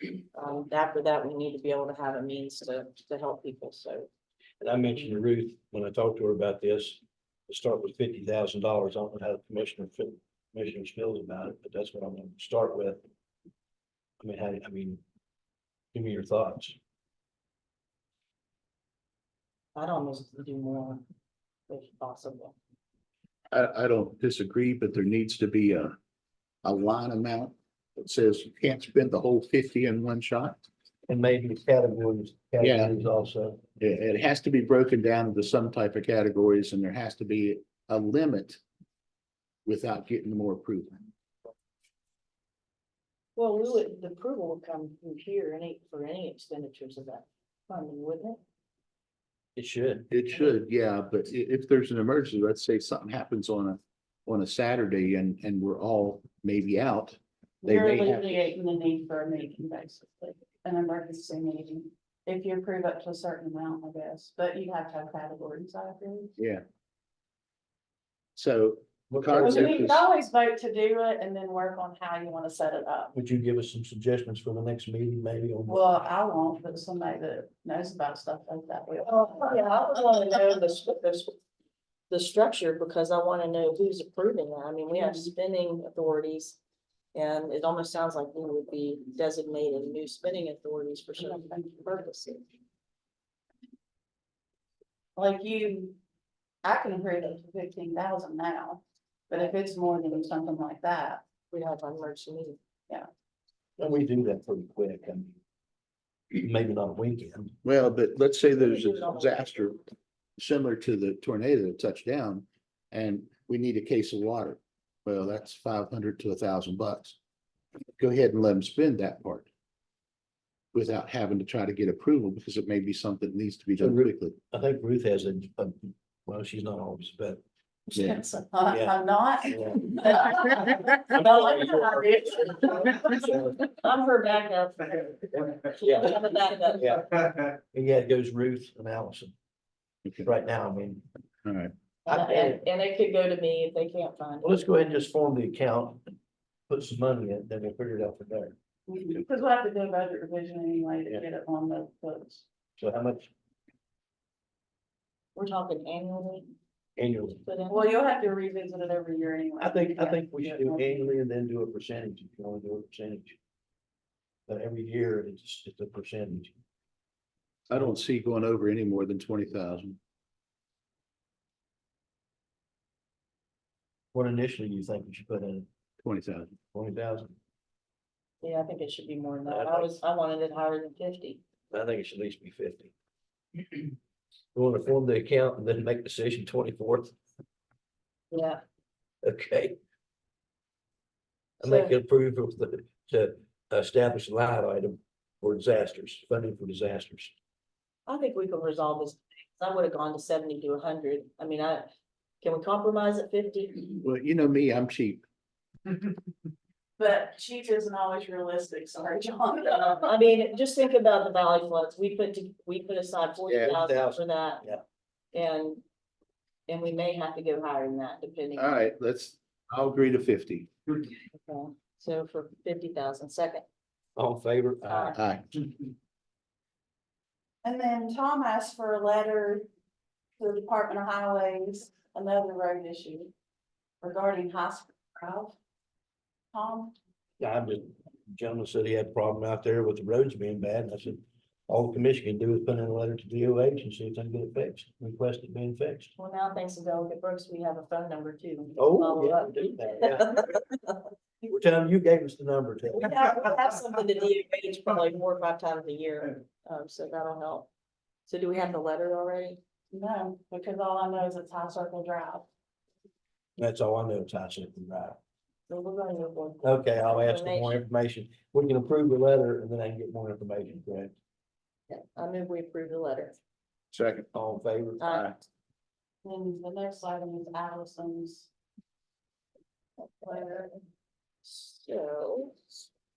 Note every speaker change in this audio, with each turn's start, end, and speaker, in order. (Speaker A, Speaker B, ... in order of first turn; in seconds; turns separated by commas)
Speaker A: 0.3-4.1, Speaker B: 4.6-13.0, Speaker B: 14.2-15.0, Speaker B: 15.9-16.8, Speaker A: 19.8-21.0, Speaker A: 21.7-22.6, Speaker C: 23.5-26.0, Speaker C: 26.6-30.6, Speaker B: 31.1-33.6, Speaker C: 32.6-32.9, Speaker C: 33.8-38.6, Speaker C: 39.7-41.1, Speaker A: 43.4-48.4, Speaker B: 49.6-50.1, Speaker C: 50.1-58.5, Speaker D: 57.6-66.3, Speaker C: 66.4-66.6, Speaker C: 68.4-70.1, Speaker B: 69.1-69.9, Speaker D: 69.4-73.1, Speaker B: 73.1-75.8, Speaker D: 75.7-79.6, Speaker A: 79.1-81.3, Speaker A: 82.1-86.6, Speaker D: 84.9-85.3, Speaker A: 87.1-92.4, Speaker D: 91.2-92.1, Speaker D: 95.2-96.0, Speaker D: 96.6-101.2, Speaker A: 101.5-102.6, Speaker B: 103.8-105.3, Speaker B: 106.3-107.5, Speaker C: 107.6-109.8, Speaker A: 108.6-109.8, Speaker C: 110.4-117.2, Speaker C: 118.0-119.5, Speaker C: 120.7-124.3, Speaker B: 123.8-127.4, Speaker D: 127.9-133.2, Speaker C: 128.0-128.2, Speaker B: 128.7-129.9, Speaker B: 131.3-131.9, Speaker B: 133.1-133.6, Speaker A: 133.7-137.0, Speaker B: 135.3-136.1, Speaker B: 136.8-139.3, Speaker B: 140.2-141.0, Speaker C: 141.4-141.7, Speaker A: 142.1-144.6, Speaker B: 142.1-142.6, Speaker B: 144.4-146.0, Speaker B: 146.7-148.6, Speaker D: 148.9-152.4, Speaker B: 152.8-153.3, Speaker A: 155.3-156.5, Speaker B: 157.0-157.4, Speaker A: 157.4-157.9, Speaker D: 157.7-161.1, Speaker B: 159.6-163.4, Speaker B: 164.5-166.5, Speaker C: 167.7-170.0, Speaker B: 174.1-175.7, Speaker C: 176.0-176.6, Speaker B: 176.7-177.3, Speaker A: 178.4-181.4, Speaker B: 179.5-179.9, Speaker B: 181.7-182.9, Speaker B: 184.5-187.1, Speaker A: 188.3-188.6, Speaker B: 189.2-189.8, Speaker B: 191.6-197.3, Speaker A: 191.6-191.9, Speaker A: 198.1-201.9, Speaker A: 202.4-203.9, Speaker C: 204.0-205.2, Speaker D: 207.0-210.1, Speaker A: 209.8-214.6, Speaker C: 213.5-213.7, Speaker B: 213.6-214.8, Speaker A: 215.3-215.8, Speaker A: 216.7-218.7, Speaker C: 218.6-220.7, Speaker A: 221.3-223.6, Speaker B: 224.2-225.2, Speaker A: 224.9-225.2, Speaker C: 225.1-225.5, Speaker D: 227.6-229.7, Speaker D: 230.4-233.3, Speaker D: 234.0-235.6, Speaker D: 236.5-236.9, Speaker B: 237.4-246.1, Speaker A: 246.2-250.6, Speaker B: 248.8-250.4, Speaker B: 251.4-253.2, Speaker A: 252.9-257.7, Speaker A: 258.3-259.6, Speaker D: 259.9-262.5, Speaker B: 263.6-265.2, Speaker A: 265.7-267.8, Speaker B: 266.6-271.1, Speaker A: 271.9-273.4, Speaker C: 273.9-274.3, Speaker B: 274.3-275.2, Speaker A: 275.0-275.3, Speaker D: 276.2-278.5, Speaker D: 280.2-280.7, Speaker A: 281.4-282.9